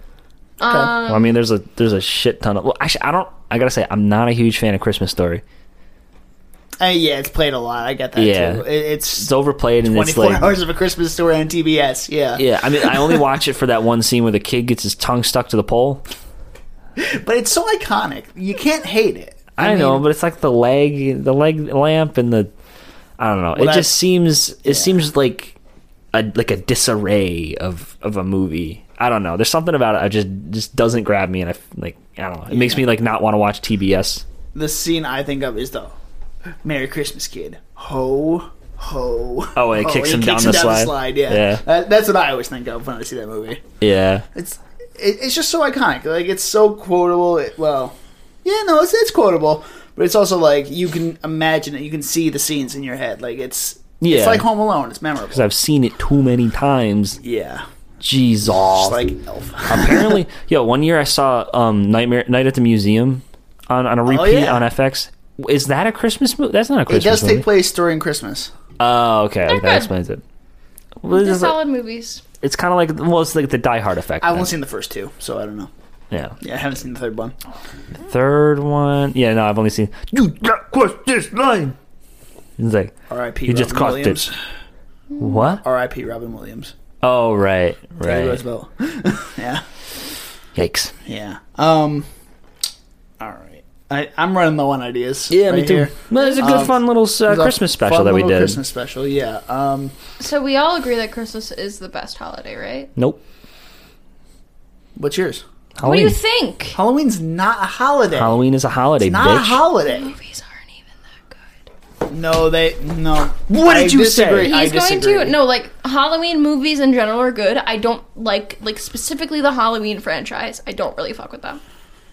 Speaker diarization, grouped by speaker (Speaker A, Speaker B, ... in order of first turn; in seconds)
Speaker A: 0.6-1.3, 69.5-69.9, 71.1-72.2, 96.1-96.8, 100.2-102.9, 105.8-106.8, 109.9-111.5, 114.5-121.6
Speaker B: 0.6-0.9, 6.8-9.3, 9.8-13.2, 17.0-20.1, 23.6-24.0, 24.6-25.0, 32.5-32.8, 34.5-36.0, 36.6-43.6, 44.3-55.5, 57.2-57.6, 58.7-60.2, 64.1-64.7, 66.9-68.5, 74.2-75.7, 76.4-77.3, 83.1-84.4, 85.6-86.8, 88.0-89.6, 91.0-92.1, 93.2-100.0, 105.0-105.4, 106.7-108.4, 109.0-110.1, 112.1-115.4
Speaker C: 1.1-5.4, 8.2-10.6, 12.4-16.1, 19.6-22.5, 23.2-25.6, 26.1-34.2, 39.6-41.6, 43.8-44.3, 54.0-54.5, 55.3-57.2, 58.0-59.1, 59.7-67.5, 68.8-70.2, 71.0-71.6, 72.4-74.5, 76.1-76.4, 78.0-81.8, 82.6-84.3, 85.2-85.6, 87.0-88.4, 90.5-90.9, 95.3-98.6, 103.0-103.2, 105.8-106.2, 108.1-109.6, 113.5-114.5